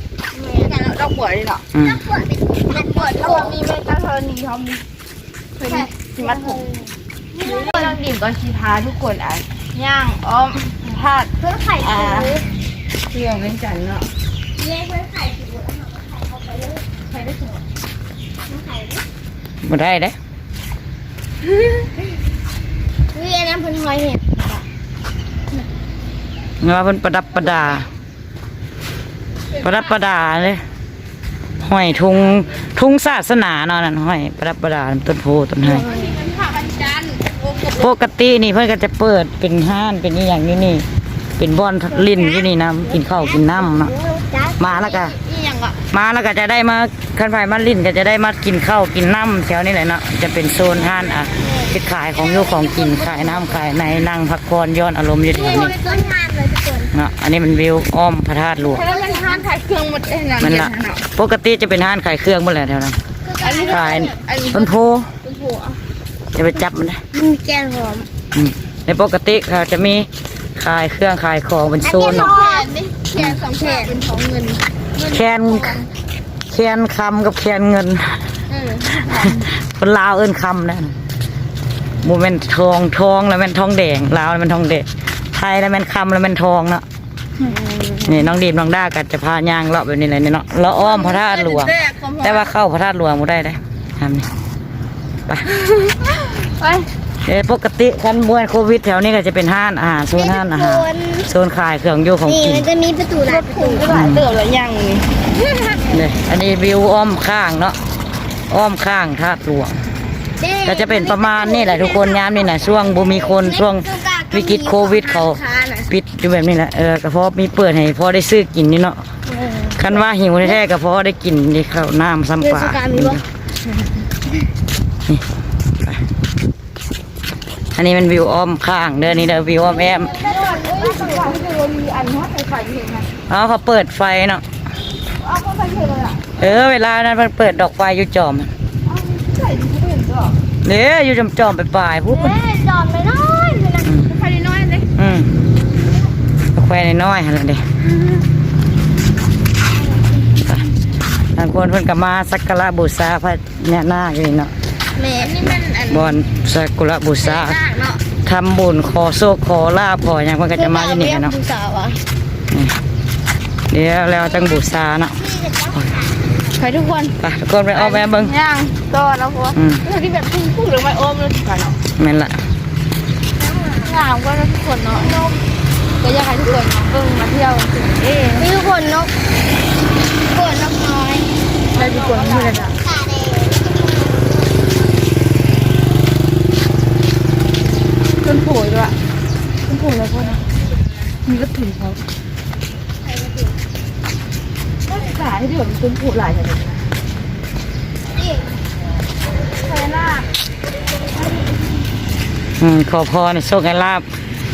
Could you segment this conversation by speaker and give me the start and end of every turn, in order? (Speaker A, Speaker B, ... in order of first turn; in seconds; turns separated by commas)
Speaker A: 0.3-0.8, Speaker B: 0.6-1.6, Speaker C: 1.7-2.0, Speaker A: 1.8-3.6, Speaker B: 2.7-4.8, Speaker B: 5.6-6.6, Speaker A: 5.6-8.0, Speaker B: 7.5-12.4, Speaker A: 11.4-12.4, Speaker B: 13.1-14.1, Speaker A: 14.6-16.9, Speaker B: 17.0-17.6, Speaker A: 18.5-19.0, Speaker C: 19.6-20.1, Speaker B: 21.5-21.8, Speaker A: 23.1-24.6, Speaker C: 26.6-27.9, Speaker B: 29.5-30.0, Speaker C: 29.6-30.6, Speaker C: 31.6-35.9, Speaker A: 35.6-36.2, Speaker B: 35.6-38.0, Speaker C: 37.8-40.9, Speaker C: 41.4-43.9, Speaker A: 41.9-44.8, Speaker C: 44.6-45.1, Speaker B: 44.7-45.8, Speaker C: 45.9-55.8, Speaker B: 50.6-51.5, Speaker A: 51.4-53.6, Speaker A: 55.3-56.9, Speaker B: 55.5-56.1, Speaker C: 56.9-58.9, Speaker A: 58.6-59.5, Speaker B: 58.7-61.1, Speaker C: 60.4-63.0, Speaker A: 63.2-64.2, Speaker B: 63.4-65.8, Speaker C: 63.7-65.1, Speaker C: 66.3-67.0, Speaker A: 66.5-68.1, Speaker C: 68.3-72.3, Speaker A: 71.8-72.8, Speaker B: 72.1-75.9, Speaker C: 73.2-73.4, Speaker A: 73.4-74.0, Speaker C: 75.0-75.8, Speaker C: 76.5-78.2, Speaker B: 78.5-79.5, Speaker C: 79.6-80.9, Speaker C: 82.0-86.8, Speaker B: 87.4-88.3, Speaker C: 88.1-94.3, Speaker B: 90.7-92.5, Speaker B: 95.5-96.9, Speaker C: 97.2-102.7, Speaker A: 100.1-101.3, Speaker A: 102.2-103.9, Speaker B: 103.2-105.8, Speaker C: 103.9-104.2, Speaker A: 105.7-106.0, Speaker C: 105.9-107.8, Speaker C: 108.5-109.8, Speaker A: 110.4-115.9, Speaker C: 110.6-119.0, Speaker A: 119.3-120.6, Speaker C: 119.8-123.2, Speaker A: 122.4-123.2, Speaker C: 127.8-130.1, Speaker A: 129.6-131.5, Speaker B: 130.1-133.1, Speaker C: 133.3-134.4, Speaker B: 135.2-136.3, Speaker C: 136.4-138.5, Speaker B: 138.8-140.4, Speaker C: 140.6-142.4, Speaker A: 142.1-143.9, Speaker C: 143.8-144.2, Speaker B: 144.1-144.9, Speaker C: 145.0-145.3, Speaker C: 146.5-147.6, Speaker C: 151.3-154.5, Speaker A: 154.9-155.6, Speaker B: 155.1-156.2, Speaker C: 155.9-157.6, Speaker B: 157.2-158.0, Speaker C: 158.2-161.3, Speaker A: 160.5-162.0, Speaker C: 162.5-162.8, Speaker C: 163.7-165.2, Speaker A: 164.1-166.6, Speaker B: 166.5-167.2, Speaker C: 167.2-168.3, Speaker B: 167.7-171.8, Speaker C: 169.6-169.8, Speaker C: 172.0-172.4, Speaker A: 173.3-174.0, Speaker B: 173.8-175.3, Speaker A: 174.9-175.4, Speaker B: 176.0-178.5, Speaker A: 178.4-179.1, Speaker A: 180.0-184.7, Speaker B: 181.7-182.8, Speaker B: 188.2-189.0, Speaker B: 189.7-190.4, Speaker B: 191.2-192.0, Speaker A: 193.0-193.6, Speaker B: 194.9-196.9, Speaker A: 198.1-198.6, Speaker B: 199.6-200.3, Speaker C: 202.6-204.1